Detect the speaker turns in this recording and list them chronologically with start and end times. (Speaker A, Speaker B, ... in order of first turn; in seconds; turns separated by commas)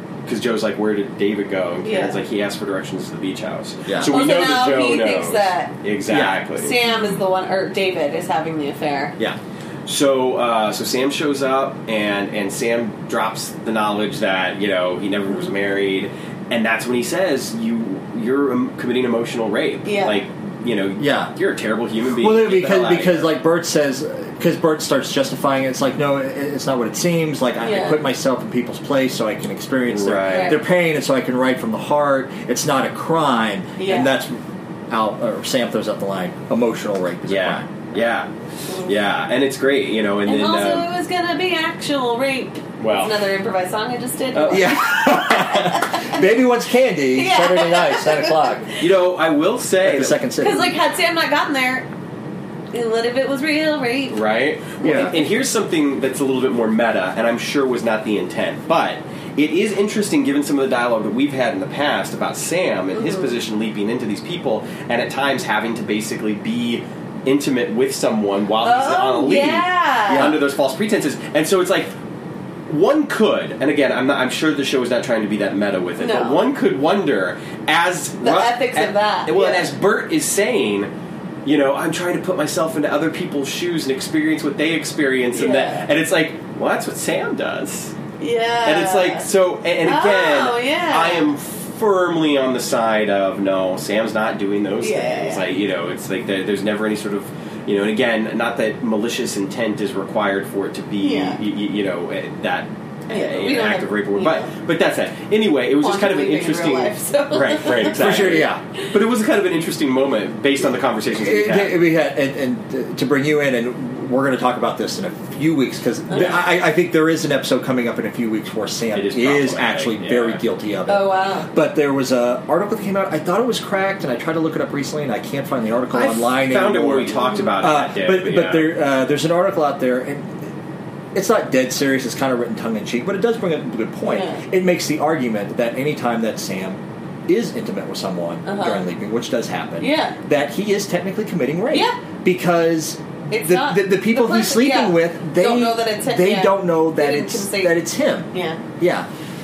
Speaker A: 0.3-6.8, Speaker B: 1.8-2.2, Speaker C: 3.9-4.1, Speaker B: 4.0-5.7, Speaker C: 6.1-7.2, Speaker B: 6.6-9.2, Speaker A: 9.9-23.3, Speaker B: 19.9-20.2, Speaker C: 21.0-21.3, Speaker C: 22.2-37.6, Speaker B: 27.6-28.0, Speaker A: 29.9-30.6, Speaker B: 30.3-30.6, Speaker B: 33.8-34.2, Speaker A: 37.3-38.3, Speaker A: 38.9-40.9, Speaker B: 40.3-46.3, Speaker A: 42.8-43.2, Speaker A: 44.3-44.7, Speaker C: 44.5-48.7, Speaker B: 47.1-48.7, Speaker A: 48.8-50.2, Speaker C: 49.8-50.8, Speaker B: 50.4-51.9, Speaker B: 52.7-54.2, Speaker A: 54.1-71.9, Speaker B: 54.8-55.1, Speaker C: 54.8-55.1, Speaker B: 62.9-63.4, Speaker B: 68.6-70.4, Speaker C: 70.1-70.4, Speaker A: 72.7-80.9, Speaker B: 76.0-76.5, Speaker B: 78.2-79.7, Speaker A: 81.5-88.0, Speaker B: 85.3-85.9, Speaker B: 88.2-89.3, Speaker A: 88.6-111.8, Speaker B: 89.8-91.3, Speaker B: 94.8-95.5, Speaker B: 101.0-101.4, Speaker B: 103.1-104.5, Speaker B: 105.8-108.2, Speaker C: 107.9-108.6, Speaker C: 111.1-130.5, Speaker B: 116.1-116.4, Speaker A: 118.9-120.4, Speaker B: 120.9-121.5, Speaker A: 125.9-128.7, Speaker B: 127.2-127.5, Speaker C: 131.1-149.1, Speaker B: 134.1-134.4, Speaker B: 138.4-138.9, Speaker B: 139.8-140.2, Speaker B: 141.7-142.0, Speaker B: 143.3-148.6